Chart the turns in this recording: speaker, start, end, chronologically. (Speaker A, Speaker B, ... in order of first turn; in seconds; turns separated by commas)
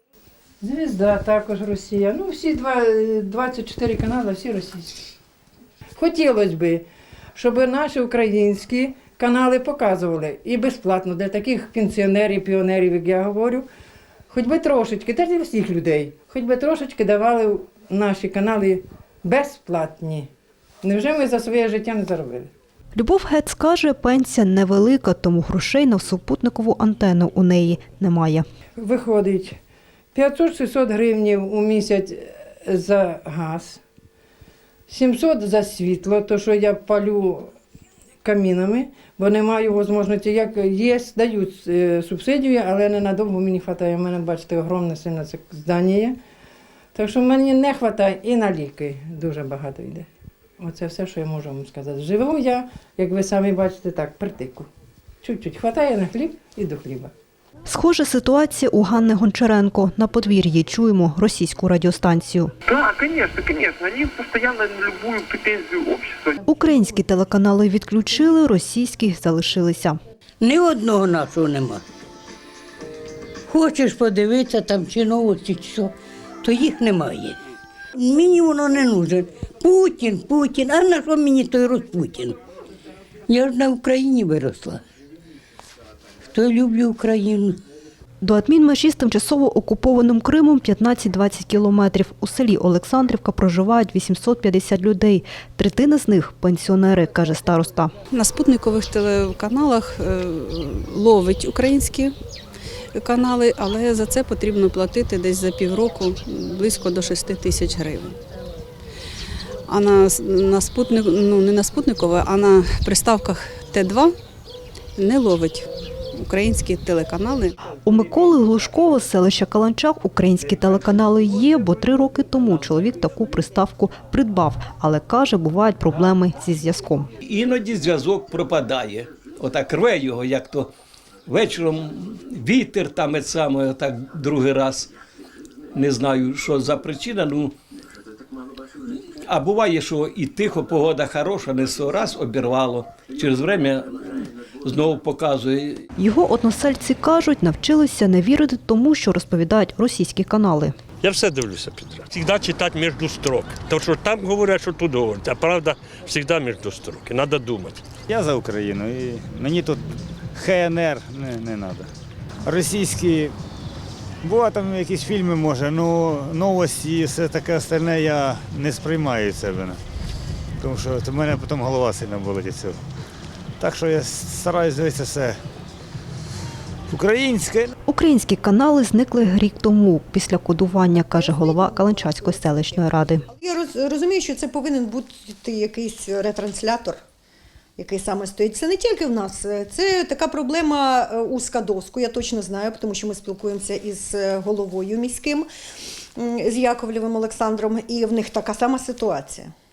Speaker A: 0.6-5.0, Speaker A: 6.0-13.7, Speaker A: 14.3-20.3, Speaker A: 20.8-22.5, Speaker B: 22.9-28.4, Speaker A: 28.8-29.6, Speaker A: 30.1-33.8, Speaker A: 34.9-37.5, Speaker A: 38.2-46.2, Speaker A: 46.9-50.1, Speaker A: 50.6-54.7, Speaker A: 55.2-57.1, Speaker B: 57.7-62.5, Speaker C: 62.7-66.4, Speaker B: 66.5-70.0, Speaker D: 70.4-71.8, Speaker D: 73.5-77.4, Speaker D: 78.0-82.4, Speaker D: 83.3-84.8, Speaker D: 86.3-87.6, Speaker B: 88.2-97.9, Speaker E: 98.1-102.1, Speaker E: 102.9-108.2, Speaker E: 109.7-114.1, Speaker E: 115.0-117.5, Speaker B: 117.8-127.1, Speaker F: 127.2-130.7, Speaker F: 131.3-134.9, Speaker F: 135.7-137.5, Speaker F: 139.3-143.9, Speaker F: 144.6-145.8, Speaker B: 146.0-150.7, Speaker G: 151.0-157.8, Speaker H: 158.1-159.8, Speaker H: 160.3-161.9, Speaker H: 162.4-163.3, Speaker H: 164.2-169.8, Speaker H: 170.6-172.8, Speaker H: 173.6-175.3, Speaker H: 176.9-177.7, Speaker B: 177.9-183.2, Speaker I: 183.3-187.0, Speaker I: 187.8-195.5, Speaker I: 196.2-199.5